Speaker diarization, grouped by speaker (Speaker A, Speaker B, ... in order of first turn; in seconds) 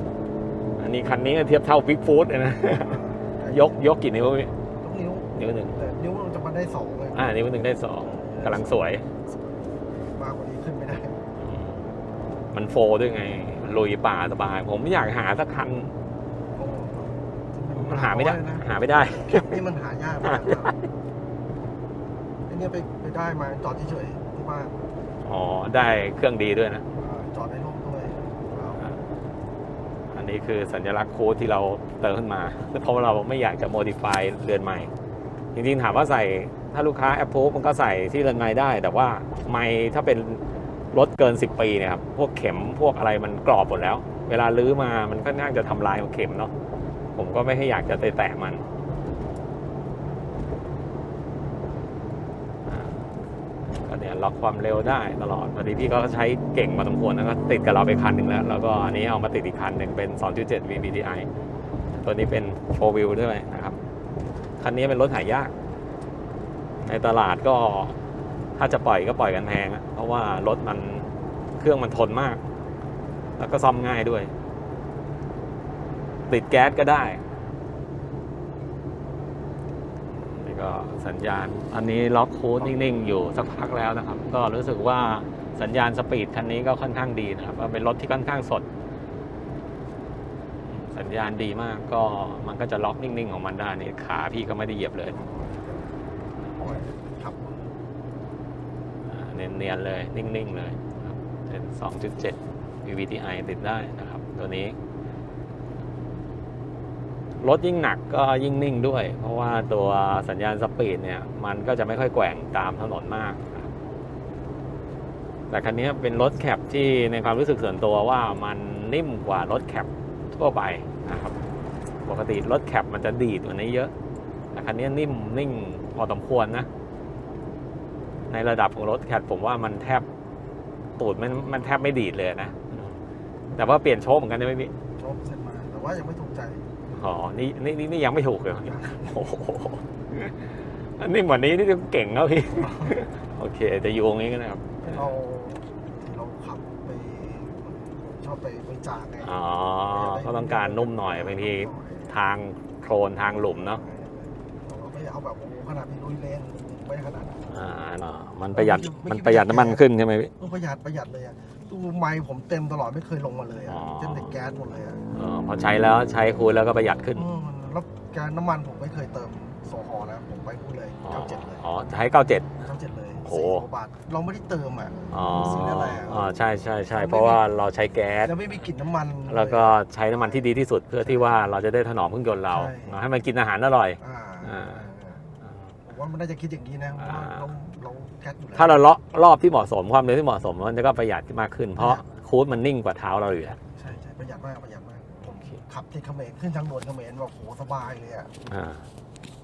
Speaker A: 0.8-4.6, 5.3-5.8, 7.1-9.1, 11.4-11.8, 12.5-15.9, 17.7-19.6, 20.2-20.8, 25.2-26.8, 28.7-29.0, 30.1-34.9, 35.5-46.5, 47.1-48.6, 52.6-53.0, 53.8-61.3, 61.9-63.8, 64.6-65.5, 66.8-68.0, 68.6-72.4, 73.4-74.3, 76.3-77.2, 80.3-88.7, 90.7-95.2, 96.5-96.8, 99.0-104.8, 107.4-113.7, 115.5-121.4, 122.0-123.9, 124.5-126.7, 128.3-130.1, 131.0-133.0, 133.5-134.7, 136.9-145.1, 149.2-153.8, 157.4-160.3, 163.7-164.4, 165.1-167.3, 171.0-172.6, 173.2-173.7, 175.1-178.7, 179.2-184.8, 187.0-187.5, 188.5-193.6, 195.3-195.6, 198.4-198.8
Speaker B: 2.8-3.9, 4.8-9.2, 10.0-11.2, 16.5-20.8, 22.5-24.7, 26.9-28.8, 95.1-95.9, 96.6-97.6, 134.9-136.9, 138.6-139.3, 142.5-143.0, 144.8-152.2, 153.3-157.4, 158.5-159.8, 160.4-165.0, 167.1-171.7, 172.6-176.3, 176.9-177.4, 178.2-181.4, 182.5-183.0, 184.0-188.9, 191.8-192.1, 193.8-198.3